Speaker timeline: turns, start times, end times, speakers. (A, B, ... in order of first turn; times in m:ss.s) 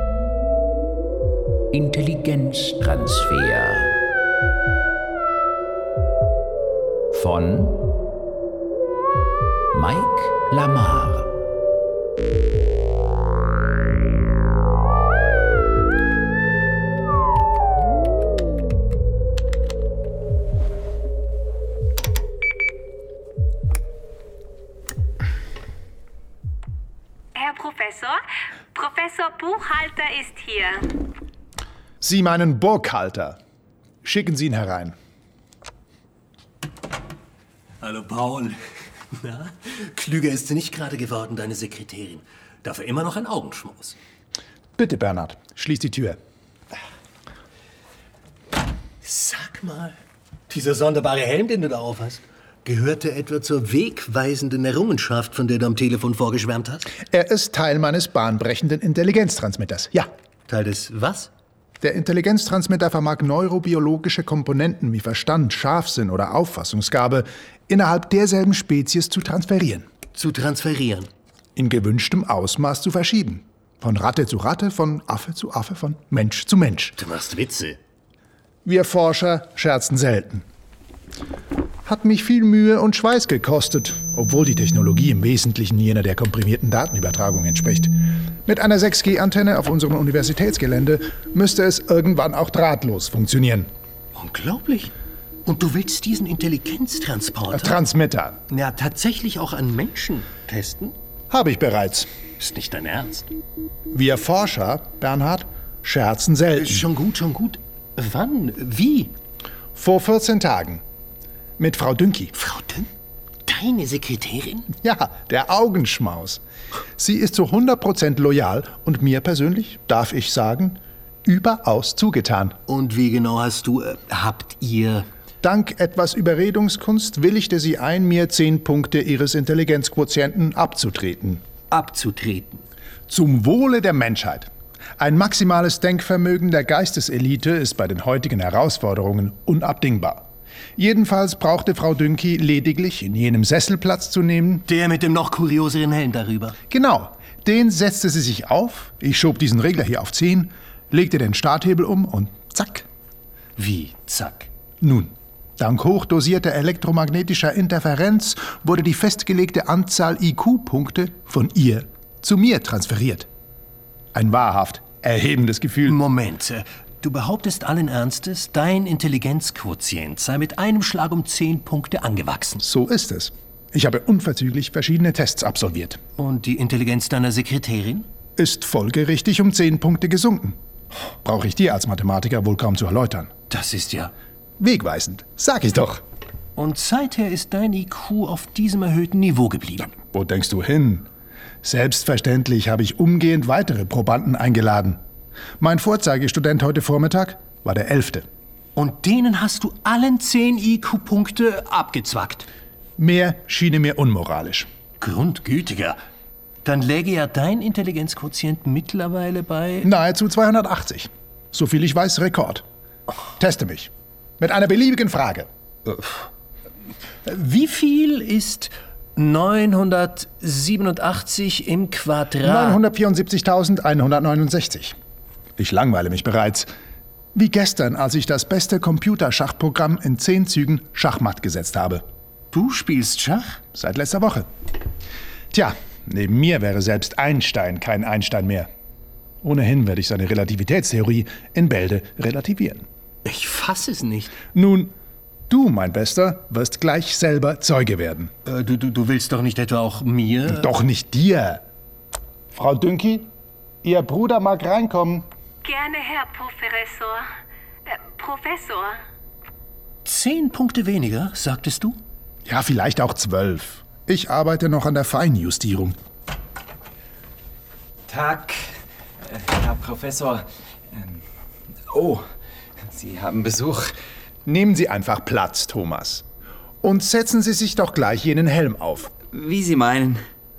0:01.7-0:03.9 A
0:07.1-0:07.9 A
0:09.7-0:11.3 A
0:27.3-0:28.2 B
0:28.7-0:30.8 B
0:32.0-0:33.4 C
0:34.0-0:34.9 C
0:37.8-0:38.6 D
0:39.1-0:44.0 D
0:44.8-0:46.2 C
0:49.0-0:50.0 D
0:50.5-0:56.9 D
0:57.0-1:00.1 C
1:00.5-1:01.3 D
1:01.8-1:09.9 C
1:10.1-1:11.1 D
1:11.6-1:17.0 C
1:17.0-1:17.8 D
1:18.6-1:20.4 C
1:21.8-1:33.7 C
1:34.1-1:34.9 D
1:35.4-1:37.7 D
1:37.5-1:38.4 C
1:38.5-1:41.0 D
1:41.3-1:42.1 C
1:42.4-1:43.3 D
1:43.9-1:46.8 C
1:46.6-1:49.1 D
1:49.7-1:50.8 C
1:51.6-1:52.3 C
1:52.3-1:52.9 D
1:53.5-1:54.7 D
1:54.8-1:56.4 C
1:57.0-2:02.6 C
2:02.7-2:05.0 D
2:05.4-2:11.4 C
2:11.7-2:12.6 D
2:13.1-2:24.6 C
2:24.7-2:26.6 D
2:26.7-2:32.8 C
2:33.6-2:34.5 D
2:34.8-2:43.3 C
2:44.1-2:46.0 C
2:45.9-2:52.6 D
2:52.6-2:56.0 C
2:56.2-2:58.0 D
2:58.4-3:00.6 C
3:01.2-3:03.3 C
3:03.5-3:04.1 D
3:04.6-3:06.0 C
3:06.6-3:09.9 D
3:10.0-3:11.1 C
3:11.6-3:15.0 C
3:15.6-3:18.2 C
3:18.8-3:22.5 D
3:23.0-3:24.7 C
3:25.0-3:26.0 D
3:26.6-3:29.9 D
3:29.8-3:32.6 C
3:33.4-3:35.5 C
3:35.9-3:36.2 D
3:37.2-3:42.8 D
3:42.4-3:44.9 C
3:45.6-3:46.7 C
3:47.3-3:52.0 C
3:52.5-3:53.6 D
3:53.7-3:54.5 C
3:55.5-3:58.7 C
3:59.4-4:02.8 C
4:03.2-4:04.4 D
4:04.5-4:04.9 C
4:05.5-4:08.3 C
4:08.4-4:10.7 D
4:10.5-4:11.6 C
4:12.5-4:13.3 C
4:13.8-4:15.3 C
4:15.6-4:17.2 B
4:17.9-4:18.9 B
4:20.0-4:22.0 D
4:22.4-4:26.0 C
4:28.1-4:28.7 E
4:29.2-4:31.2 E
4:31.9-4:32.2 E
4:32.9-4:33.9 E
4:34.4-4:36.2 C
4:36.8-4:39.1 C
4:39.3-4:40.2 E